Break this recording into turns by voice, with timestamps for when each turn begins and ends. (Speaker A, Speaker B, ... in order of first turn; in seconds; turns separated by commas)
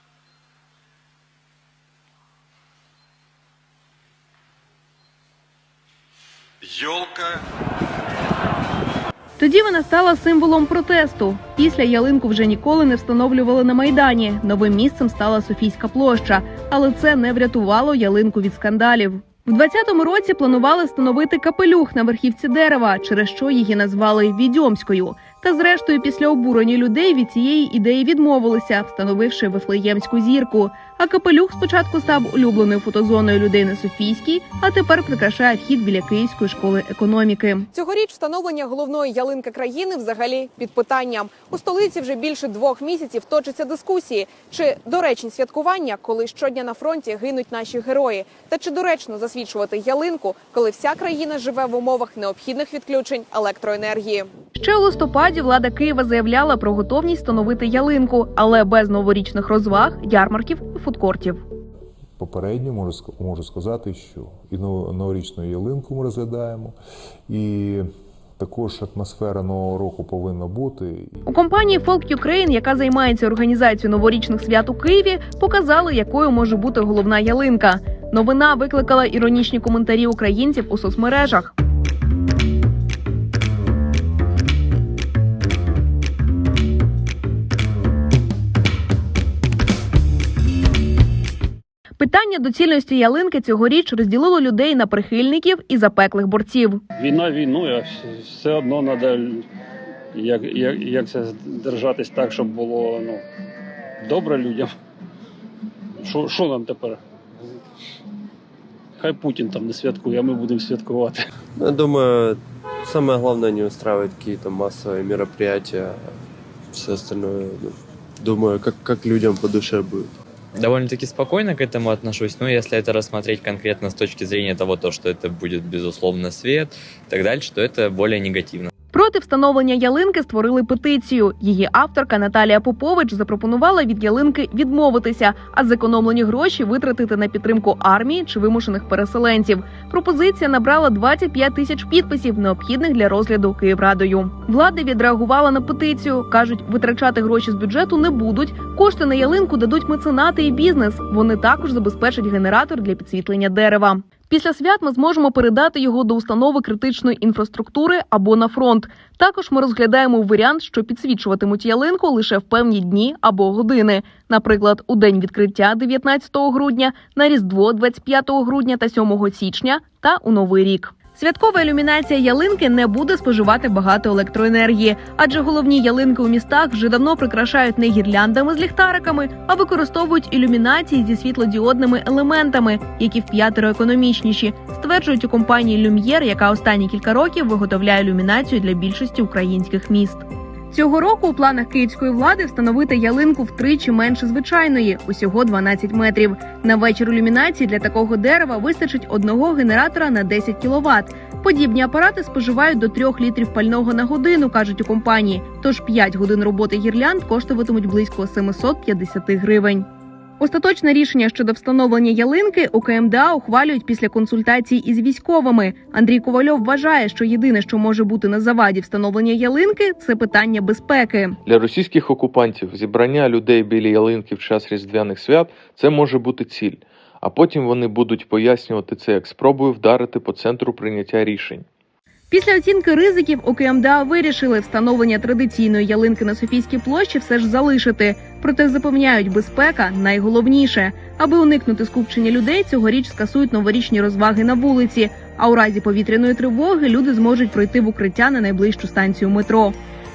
Speaker A: 6.7-7.0, Speaker B: 9.4-37.7, Speaker C: 37.7-54.3, Speaker B: 54.6-61.4, Speaker D: 62.2-66.8, Speaker D: 67.3-67.9, Speaker D: 68.4-71.3, Speaker B: 71.3-81.5, Speaker B: 92.0-96.8, Speaker E: 97.0-99.5, Speaker E: 100.1-103.2, Speaker E: 104.0-104.7, Speaker E: 106.0-107.5, Speaker E: 109.0-111.3, Speaker F: 111.6-116.2, Speaker F: 116.7-120.1, Speaker G: 120.6-128.7, Speaker B: 128.9-209.9, Speaker B: 210.4-221.4, Speaker A: 221.5-231.7, Speaker B: 232.3-249.8